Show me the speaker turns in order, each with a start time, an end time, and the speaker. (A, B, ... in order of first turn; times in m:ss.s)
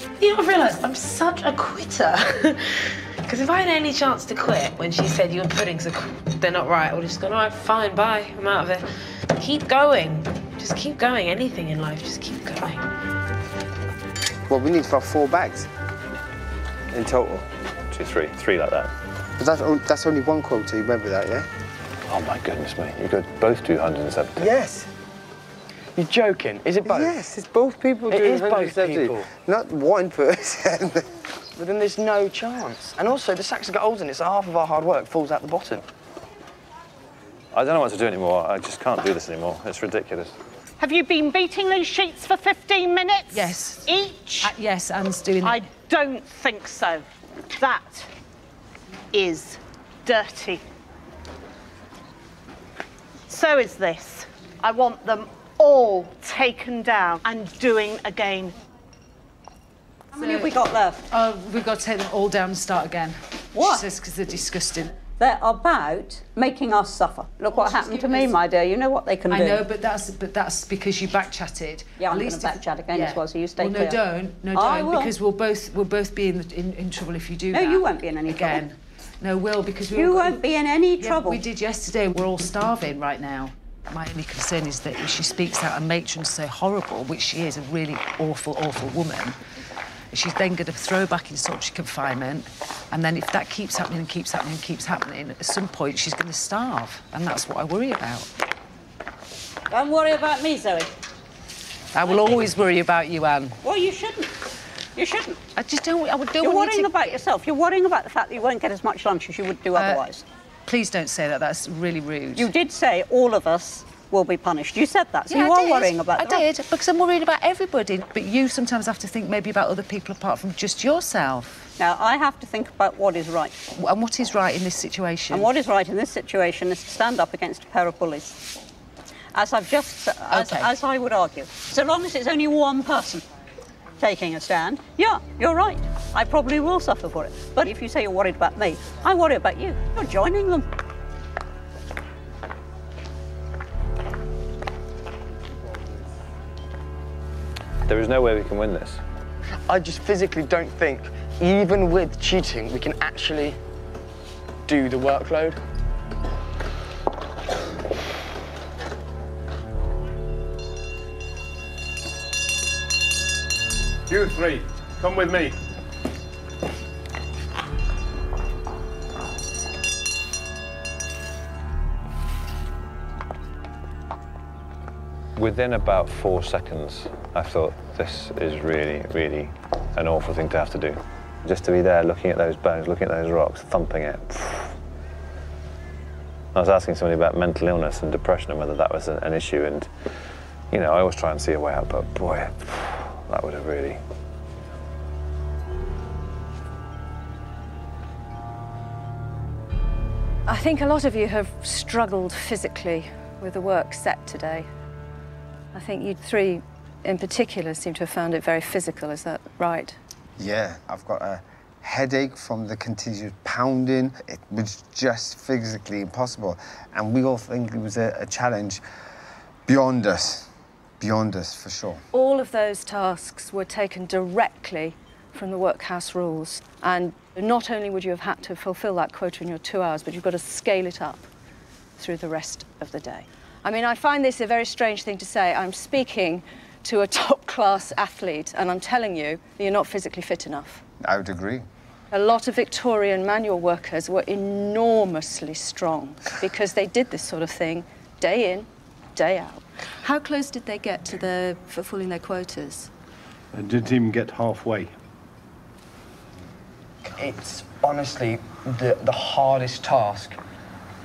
0:00.2-0:12.8 A
0:14.5-0:15.7 B
0:16.9-0:17.5 B
0:17.9-0:18.9 C
0:19.4-0:21.5 B
0:22.1-0:24.4 C
0:24.4-0:24.9 B
0:26.0-0:27.2 D
0:26.8-0:31.1 B
0:28.1-0:29.3 D
0:31.6-0:35.8 D
0:37.5-0:40.4 C
0:40.8-0:44.6 E
0:43.3-0:45.6 F
0:45.4-0:48.1 E
0:49.1-0:50.6 E
0:53.3-0:58.6 E
1:00.1-1:01.0 G
1:00.2-1:00.6 F
1:01.1-1:04.9 F
1:03.5-1:03.9 G
1:05.2-1:09.6 G
1:07.5-1:08.3 F
1:09.3-1:20.4 F
1:12.0-1:14.0 G
1:14.5-1:15.1 G
1:17.5-1:18.6 G
1:20.0-1:21.4 G
1:21.0-1:29.4 F
1:30.1-1:38.3 F
1:39.7-1:40.9 G
1:41.9-1:43.6 F
1:42.0-1:42.4 G
1:43.6-1:44.3 G
1:45.0-1:45.4 G
1:45.6-1:47.1 F
1:46.4-1:50.2 G
1:49.8-1:50.1 F
1:50.7-1:52.5 F
1:52.4-1:56.5 G
1:55.3-2:01.7 F
2:01.8-2:03.6 G
2:03.8-2:05.5 F
2:05.3-2:08.4 G
2:09.4-2:13.2 G
2:10.3-2:10.8 F
2:14.0-2:20.7 G
2:27.9-2:29.0 C
2:29.7-2:33.6 D
2:34.7-2:35.6 D
2:44.1-2:45.6 H
2:55.4-3:04.8 C
3:06.5-3:09.9 C
3:10.7-3:14.0 C
3:20.5-3:24.7 I
3:25.7-3:30.0 I
3:30.4-3:38.8 B
3:39.7-3:40.5 B
3:41.0-3:42.0 B
3:42.1-3:51.3 I
3:52.0-4:00.8 I
4:01.0-4:01.7 B
4:02.1-4:12.9 I
4:13.5-4:15.0 H
4:17.1-4:20.4 D